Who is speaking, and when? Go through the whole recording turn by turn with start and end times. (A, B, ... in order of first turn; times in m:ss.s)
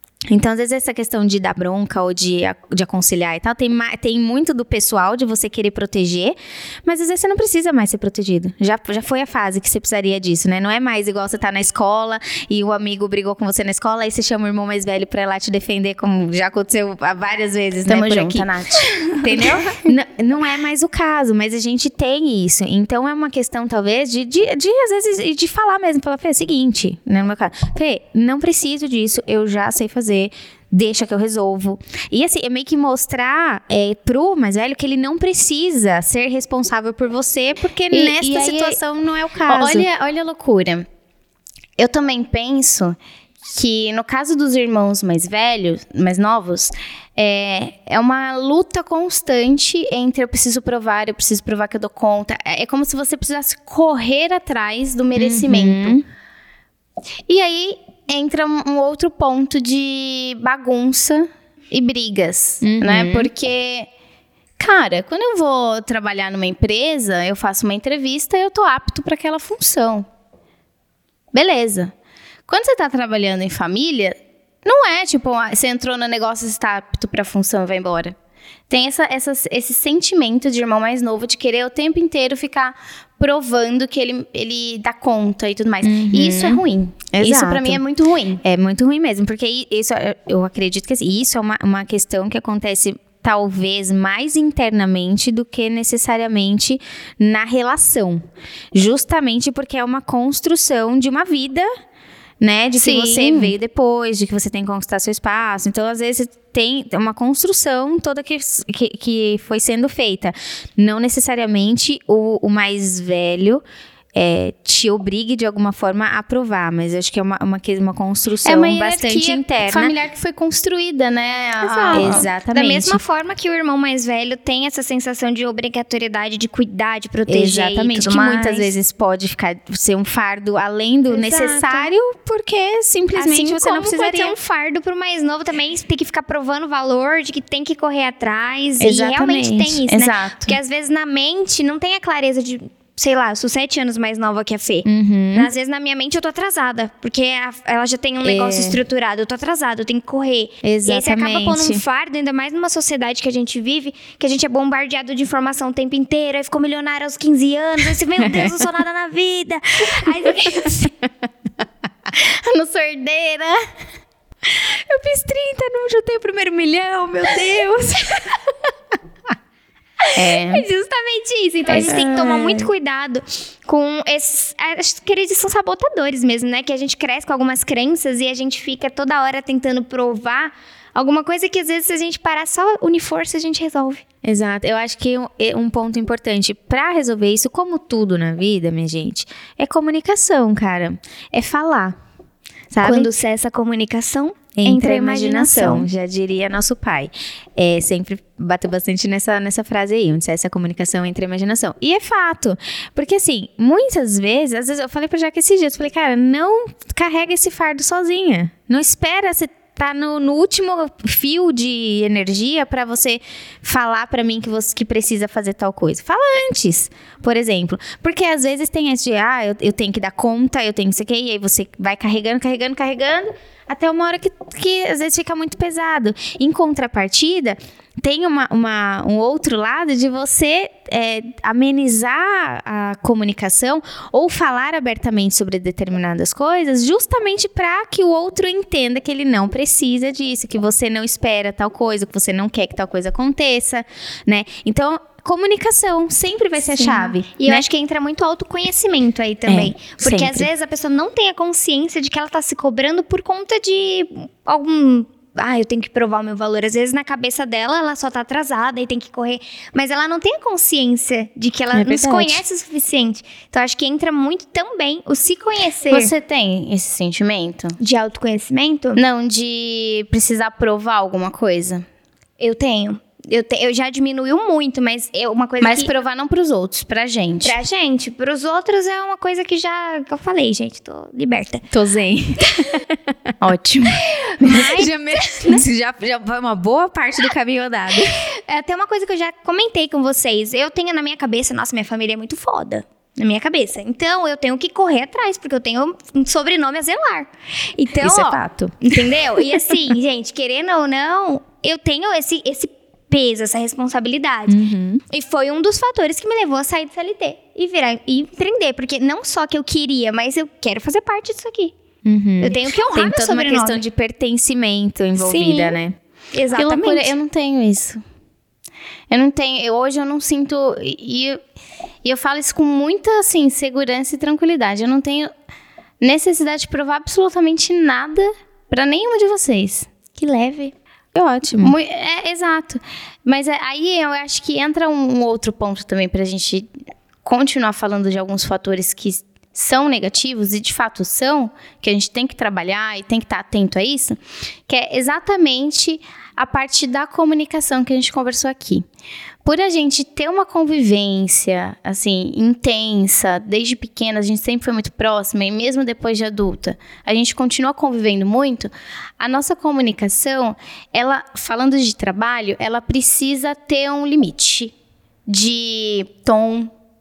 0:00.3-0:39.9 A
0:17.9-0:18.9 B
0:37.9-0:38.8 B
0:39.5-0:40.9 B
0:41.8-0:43.0 B
0:43.5-0:56.0 B
0:55.2-0:56.0 A
0:57.3-1:03.9 B
1:02.6-1:03.3 A
1:04.6-1:10.0 B
1:11.3-1:11.9 B
1:12.5-1:18.1 B
1:18.7-1:28.4 B
1:25.8-1:26.6 A
1:27.2-1:27.8 A
1:28.4-1:41.7 A
1:42.4-1:53.6 A
1:42.8-1:43.5 B
1:54.1-1:59.9 A
1:58.4-2:02.3 B
2:01.6-2:08.7 C
2:01.9-2:03.0 A
2:07.3-2:14.4 A
2:11.1-2:11.8 C
2:13.1-2:40.9 C
2:18.8-2:19.8 A
2:19.9-2:20.6 B
2:24.8-2:25.5 A
2:28.2-2:28.8 A
2:30.6-2:31.8 A
2:42.1-2:43.6 B
2:44.5-2:48.4 A
2:50.0-3:04.0 C
2:50.1-2:50.6 B
2:51.7-2:52.6 A
2:51.8-2:52.0 B
3:04.2-3:12.0 A
3:12.7-3:13.1 A
3:12.8-3:15.9 C
3:14.5-4:07.6 A
4:06.8-4:26.1 C
4:09.5-4:10.5 A
4:21.8-4:22.4 B
4:25.9-4:27.8 B
4:27.8-4:29.0 C
4:28.9-4:31.8 B
4:32.4-4:35.9 C
4:35.6-4:37.6 B
4:37.4-4:41.6 C
4:41.7-4:42.3 B
4:42.4-4:43.0 A
4:43.4-4:44.6 B
4:44.1-4:45.6 C
4:44.4-4:48.2 A
4:48.2-5:11.7 C
4:58.0-4:59.6 A
5:04.5-5:05.0 A
5:12.0-5:16.0 A
5:12.4-5:13.8 C
5:15.2-5:15.8 C
5:16.3-5:17.1 C
5:16.5-5:18.0 B
5:19.1-5:21.4 B
5:22.0-5:25.3 B
5:26.0-5:29.9 B
5:30.1-5:30.7 C
5:31.1-5:31.8 A
5:31.6-5:36.7 B
5:37.2-5:48.8 B
5:49.4-6:04.7 B
6:05.2-6:06.7 B